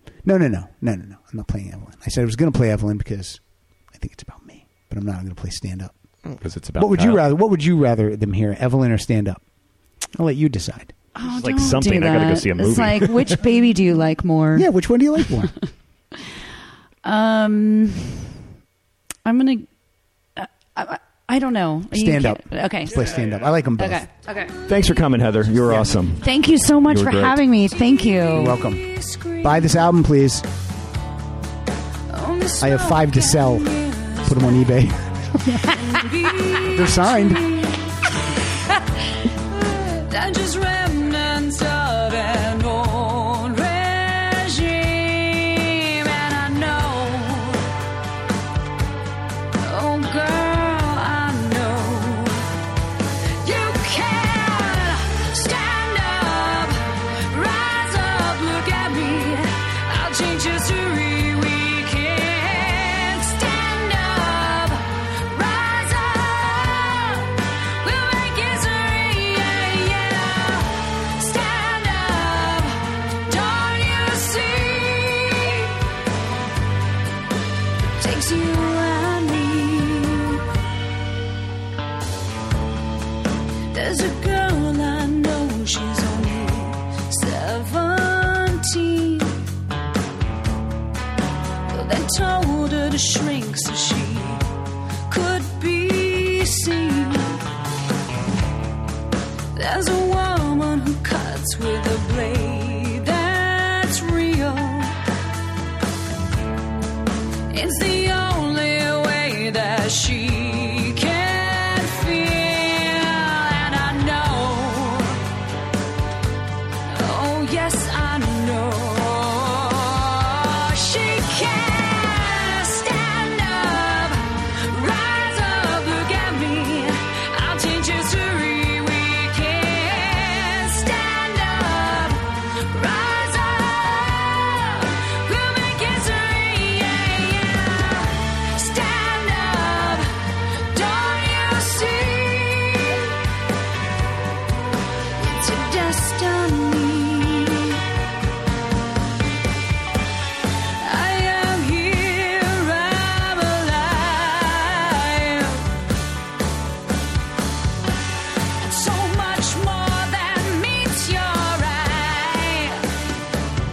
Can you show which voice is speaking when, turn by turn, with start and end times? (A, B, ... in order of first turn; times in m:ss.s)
0:00.2-0:03.4 A
0:03.9-0:05.9 A
0:06.4-0:07.2 B
0:06.8-0:09.4 A
0:10.1-0:10.9 A
0:11.1-0:14.7 C
0:11.2-0:13.4 B
0:14.5-0:15.5 A
0:17.0-0:18.3 C
0:19.2-0:19.7 C
0:20.4-0:23.1 C
0:21.9-0:24.0 A
0:23.7-0:24.5 C
0:24.1-0:25.2 D
0:24.7-0:26.3 B
0:25.6-0:26.1 A
0:26.2-0:28.6 C
0:26.8-0:27.4 B
0:27.6-0:29.9 D
0:28.3-0:28.8 A
0:29.4-0:30.4 A
0:32.1-0:34.7 D
0:32.6-0:35.7 A
0:35.8-0:38.0 D
0:36.6-0:37.4 A
0:39.5-0:47.7 D
0:49.6-0:52.5 D
0:53.4-1:15.7 D
1:18.0-1:20.4 D
1:23.7-1:29.4 D
1:31.7-1:34.4 D
1:35.1-1:37.4 D
1:39.5-1:44.9 D
1:47.5-1:55.2 D
1:56.9-2:20.1 D
2:20.7-2:23.1 D
2:25.2-2:27.8 D
2:30.8-2:35.7 D
2:38.6-2:42.8 D